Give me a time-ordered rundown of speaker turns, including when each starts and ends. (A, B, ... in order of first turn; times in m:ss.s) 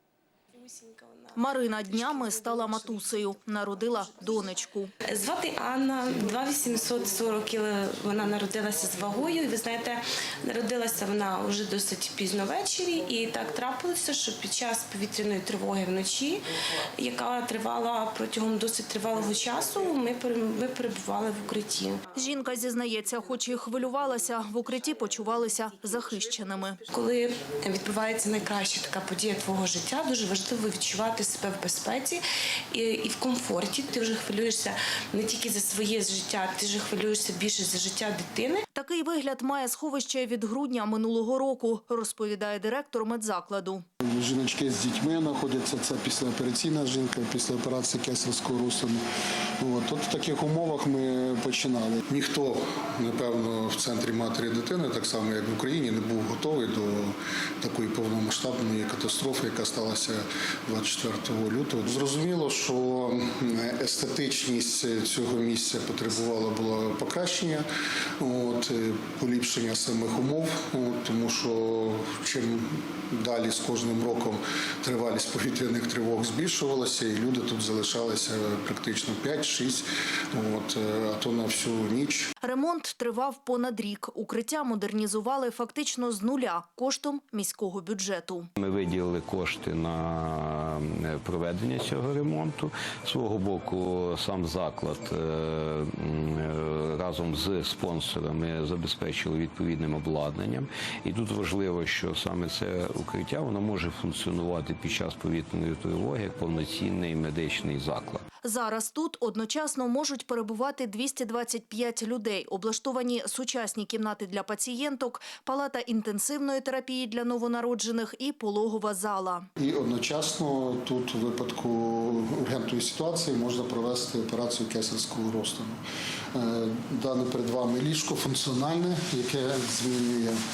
0:00.6-0:03.2 A
0:01.4-0:04.9 B
0:05.1-0:22.0 A
0:22.1-0:26.8 B
0:26.9-0:38.6 A
0:38.7-0:43.8 B
0:44.0-0:49.0 C
0:49.6-1:07.6 C
1:08.2-1:22.3 C
1:22.4-1:28.5 B
1:28.6-1:48.2 D
1:48.4-1:59.5 B
1:59.6-2:05.8 C
2:06.3-2:10.4 C